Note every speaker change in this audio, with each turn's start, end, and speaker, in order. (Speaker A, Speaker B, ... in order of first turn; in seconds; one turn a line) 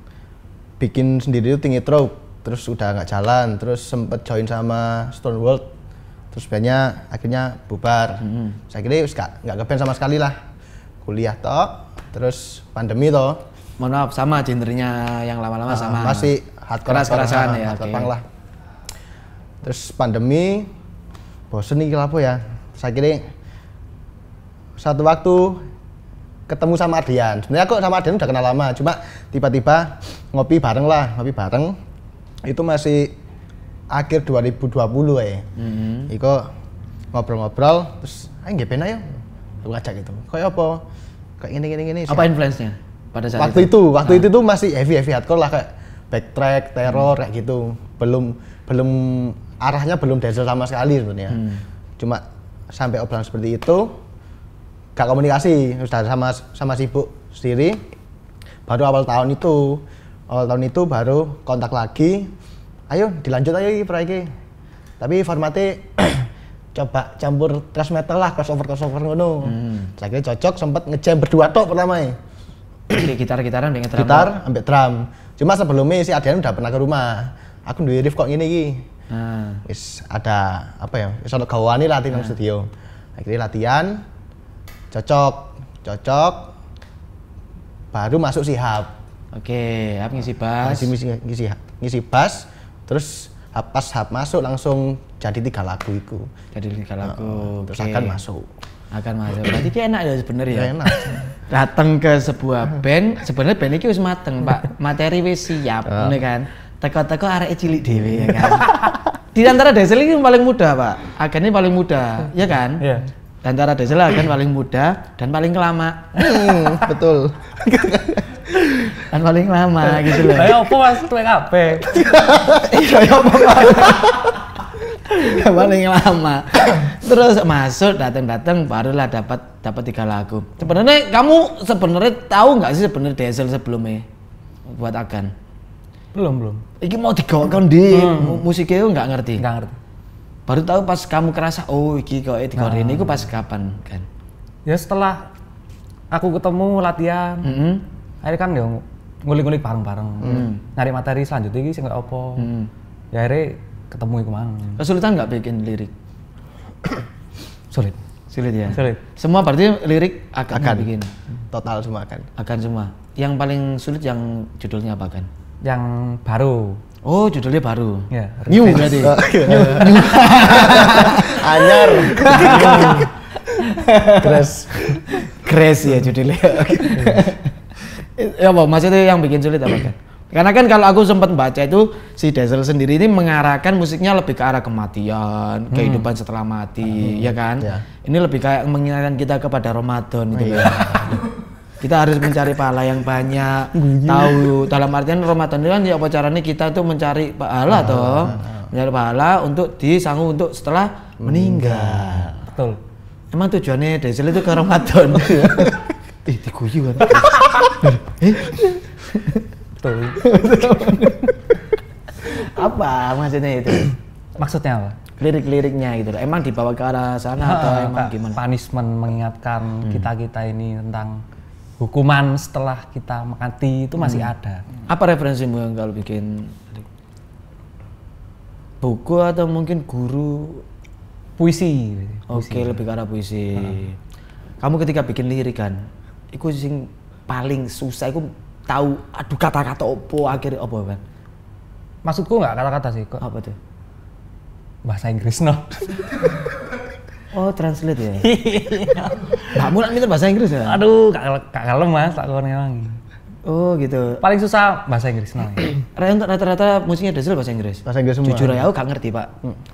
Speaker A: 0.8-5.7
Speaker A: 6.3-10.4
Speaker B: 8.2-8.6
Speaker A: 11.0-13.4
Speaker B: 13.8-16.3
Speaker A: 15.7-18.2
Speaker B: 16.9-18.1
Speaker A: 19.6-20.7
Speaker A: 21.5-23.2
Speaker A: 24.8-25.6
Speaker A: 26.5-31.8
Speaker A: 32.5-33.2
Speaker A: 33.9-35.5
Speaker B: 35.6-36.1
Speaker A: 36.1-36.5
Speaker A: 37.1-40.8
Speaker A: 41.4-42.3
Speaker B: 42.1-44.3
Speaker A: 43.4-51.4
Speaker B: 51.3-51.6
Speaker A: 52.0-54.0
Speaker A: 55.0-57.8
Speaker A: 58.7-62.3
Speaker A: 62.9-64.3
Speaker A: 65.0-72.2
Speaker B: 69.4-69.9
Speaker B: 72.9-74.3
Speaker A: 74.0-78.9
Speaker B: 79.1-79.6
Speaker A: 79.7-84.0
Speaker A: 84.9-86.5
Speaker A: 87.9-88.9
Speaker B: 89.3-90.9
Speaker A: 90.6-96.3
Speaker B: 96.5-98.2
Speaker A: 97.0-98.5
Speaker B: 98.9-100.9
Speaker A: 100.5-101.3
Speaker B: 101.5-108.8
Speaker A: 105.9-106.2
Speaker B: 109.3-112.8
Speaker C: 112.8-113.1
Speaker B: 113.4-116.5
Speaker A: 116.2-119.0
Speaker B: 119.0-120.6
Speaker C: 120.2-121.9
Speaker A: 121.9-124.2
Speaker B: 122.5-124.4
Speaker B: 125.0-134.1
Speaker B: 134.7-135.3
Speaker C: 136.1-136.7
Speaker B: 136.8-139.4
Speaker C: 137.9-138.5
Speaker C: 139.4-139.8
Speaker B: 140.5-144.1
Speaker C: 142.6-143.3
Speaker C: 144.7-145.3
Speaker C: 146.1-147.5
Speaker B: 147.4-147.8
Speaker C: 148.2-152.5
Speaker B: 150.2-150.6
Speaker B: 152.4-152.7
Speaker C: 153.1-154.8
Speaker B: 154.8-155.9
Speaker C: 157.7-158.0
Speaker B: 158.3-161.1
Speaker C: 158.7-159.0
Speaker A: 160.5-160.9
Speaker A: 161.5-162.3
Speaker B: 162.4-165.3
Speaker C: 165.6-166.8
Speaker B: 167.0-177.5
Speaker C: 168.1-169.1
Speaker A: 169.0-173.1
Speaker C: 172.2-173.1
Speaker A: 174.0-175.0
Speaker C: 177.0-177.3
Speaker B: 178.1-191.2
Speaker C: 185.7-186.1
Speaker A: 187.0-187.8
Speaker A: 190.3-191.2
Speaker B: 191.8-202.4
Speaker A: 193.9-194.5
Speaker A: 197.7-198.7
Speaker A: 201.2-202.3
Speaker C: 202.5-202.8
Speaker B: 203.3-209.4
Speaker A: 205.2-205.7
Speaker C: 209.8-210.2
Speaker B: 210.2-211.3
Speaker B: 212.2-214.0
Speaker C: 214.4-215.0
Speaker B: 215.2-218.4
Speaker C: 217.4-221.2
Speaker C: 221.8-224.7
Speaker B: 224.0-224.3
Speaker B: 224.9-226.9
Speaker B: 228.8-230.6
Speaker C: 231.4-232.8
Speaker B: 232.3-234.0
Speaker B: 234.6-235.8
Speaker B: 236.3-241.0
Speaker C: 242.1-243.2
Speaker B: 243.2-243.6
Speaker C: 244.8-246.4
Speaker B: 247.3-248.3
Speaker C: 248.2-249.6
Speaker B: 249.5-250.8
Speaker C: 250.7-253.0
Speaker B: 253.4-254.2
Speaker C: 254.2-255.8
Speaker B: 256.0-259.3
Speaker A: 257.9-258.7